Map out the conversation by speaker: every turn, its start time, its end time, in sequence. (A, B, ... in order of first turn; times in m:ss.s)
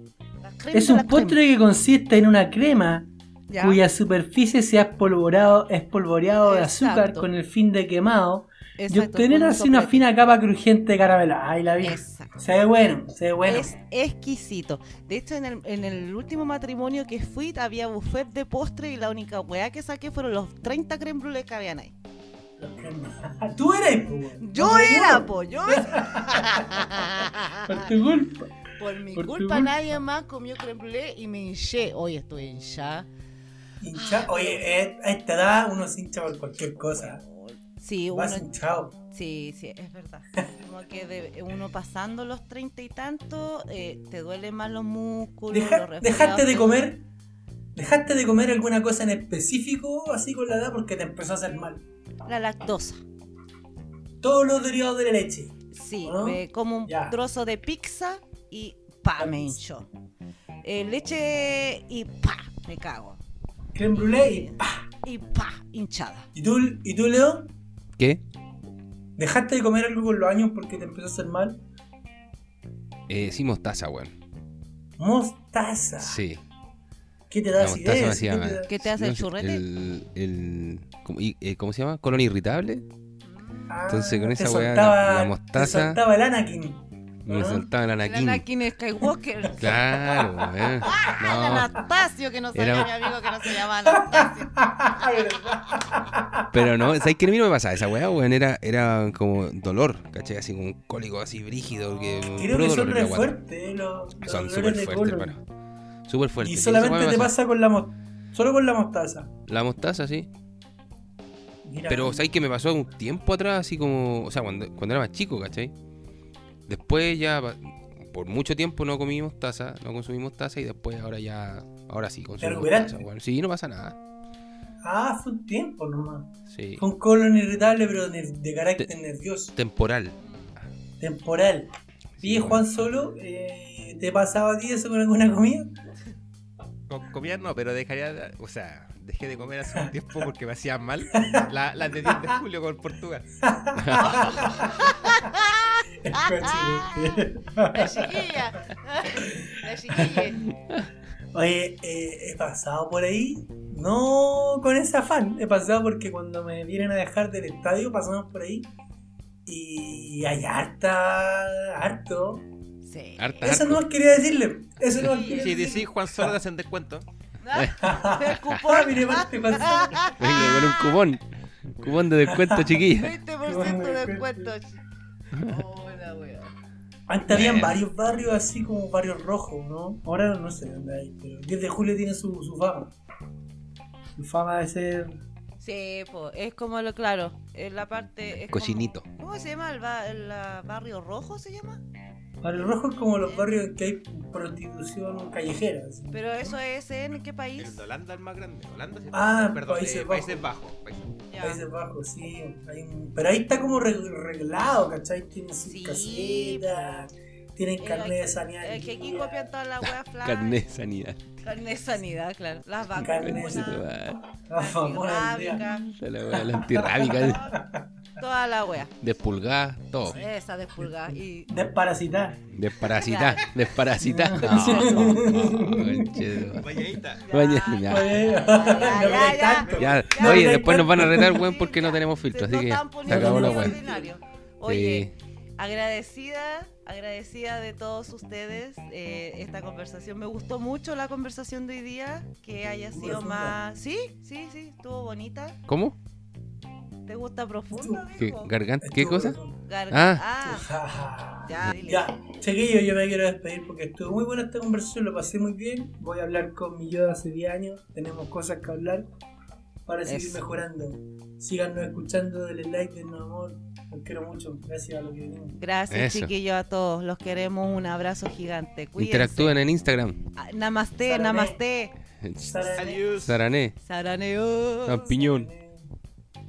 0:00.4-0:01.4 A
0:00.7-0:13.8 B
0:03.5-0:03.8 A
0:06.4-0:07.3 A
0:08.8-0:10.1 A
0:11.8-0:12.3 A
0:13.4-0:22.0 A
0:22.6-0:28.5 B
0:24.4-0:27.9 A
0:28.8-0:33.1 A
0:29.1-0:29.8 B
0:33.8-0:37.2 B
0:34.0-0:34.7 A
0:37.0-0:38.5 A
0:38.1-0:39.0 B
0:39.1-0:46.9 A
0:45.5-0:47.0 B
0:47.7-0:51.8 B
0:52.2-0:53.0 A
0:54.2-0:57.2 B
0:55.7-0:59.9 A
0:59.2-0:59.6 B
1:00.6-1:03.2 A
1:03.8-1:04.9 B
1:04.0-1:06.3 A
1:06.4-1:07.5 B
1:09.2-1:11.6 B
1:13.1-1:14.1 C
1:15.0-1:16.2 B
1:16.0-1:16.4 C
1:17.3-1:18.7 B
1:17.6-1:22.8 C
1:18.7-1:19.6 A
1:23.3-1:24.0 A
1:23.7-1:27.7 B
1:23.9-1:26.0 C
1:27.3-1:28.4 C
1:27.4-1:29.9 A
1:29.6-1:31.7 C
1:30.0-1:30.5 B
1:30.8-1:34.6 A
1:32.6-1:33.1 C
1:33.9-1:36.5 B
1:36.5-1:43.4 C
1:42.3-1:45.4 B
1:44.2-1:45.4 C
1:46.1-1:47.3 C
1:46.4-1:49.3 B
1:49.5-1:50.3 C
1:51.6-1:52.3 B
1:51.9-1:55.7 C
1:56.7-2:04.0 C
2:02.4-2:03.1 B
2:04.8-2:09.6 B
2:06.5-2:06.8 C
2:09.6-2:10.2 C
2:10.2-2:10.5 A
2:11.0-2:15.7 B
2:12.2-2:12.6 C
2:16.9-2:23.3 D
2:21.2-2:21.5 B
2:22.0-2:22.4 B
2:23.4-2:25.1 B
2:23.8-2:24.4 C
2:24.0-2:30.6 A
2:26.0-2:28.3 B
2:29.2-2:30.4 B
2:31.3-2:38.7 B
2:39.5-2:42.5 B
2:42.8-2:43.5 A
2:43.2-2:43.8 C
2:43.4-2:46.4 B
2:45.0-2:45.8 A
2:45.3-2:47.1 D
2:47.4-2:50.9 A
2:47.8-2:50.6 B
2:50.2-2:51.2 C
2:51.8-2:53.2 C
2:52.3-2:52.8 B
2:52.8-2:54.8 A
2:53.4-2:54.5 B
2:55.3-2:56.5 A
2:57.1-3:02.9 B
2:57.3-2:57.8 C
3:04.2-3:05.2 B
3:05.6-3:11.8 A
3:08.5-3:09.1 C
3:12.4-3:16.6 B
3:13.2-3:13.5 A
3:16.1-3:17.8 A
3:17.6-3:21.2 D
3:19.1-3:20.5 B
3:21.2-3:21.6 A
3:21.4-3:29.5 B
3:25.6-3:26.8 A
3:27.8-3:30.6 A
3:29.8-3:31.5 C
3:31.4-3:33.8 A
3:33.0-3:35.6 B
3:33.0-3:34.2 C
3:34.6-3:35.9 A
3:35.8-3:37.5 C
3:36.3-3:37.9 B
3:38.2-3:38.9 A
3:39.0-3:40.2 C
3:40.0-3:41.5 A
3:41.5-3:42.4 B
3:42.5-3:48.3 C
3:42.8-3:43.4 A
3:44.0-3:46.3 B
3:44.5-3:45.0 A
3:46.5-3:47.3 D
3:47.2-4:05.6 A
3:47.8-3:51.4 B
3:49.8-3:53.8 C
3:53.1-3:54.1 B
3:54.7-3:55.1 C
4:02.9-4:03.6 B
4:05.7-4:06.0 C
4:07.1-4:08.5 A
4:07.7-4:08.0 B
4:08.2-4:09.4 C
4:08.8-4:09.6 B
4:09.7-4:10.7 A
4:09.9-4:10.2 C
4:10.4-4:19.1 B
4:11.4-4:12.1 A
4:19.9-4:25.6 B
4:20.1-4:20.4 A
4:25.6-4:29.6 A
4:25.9-4:26.3 C
4:29.0-4:30.2 C
4:30.4-4:31.9 A
4:31.1-4:31.6 B
4:32.2-4:33.8 C
4:32.4-4:33.0 B
4:32.8-4:33.4 D
4:33.8-4:35.1 A
4:34.9-4:35.5 C
4:35.0-4:35.9 B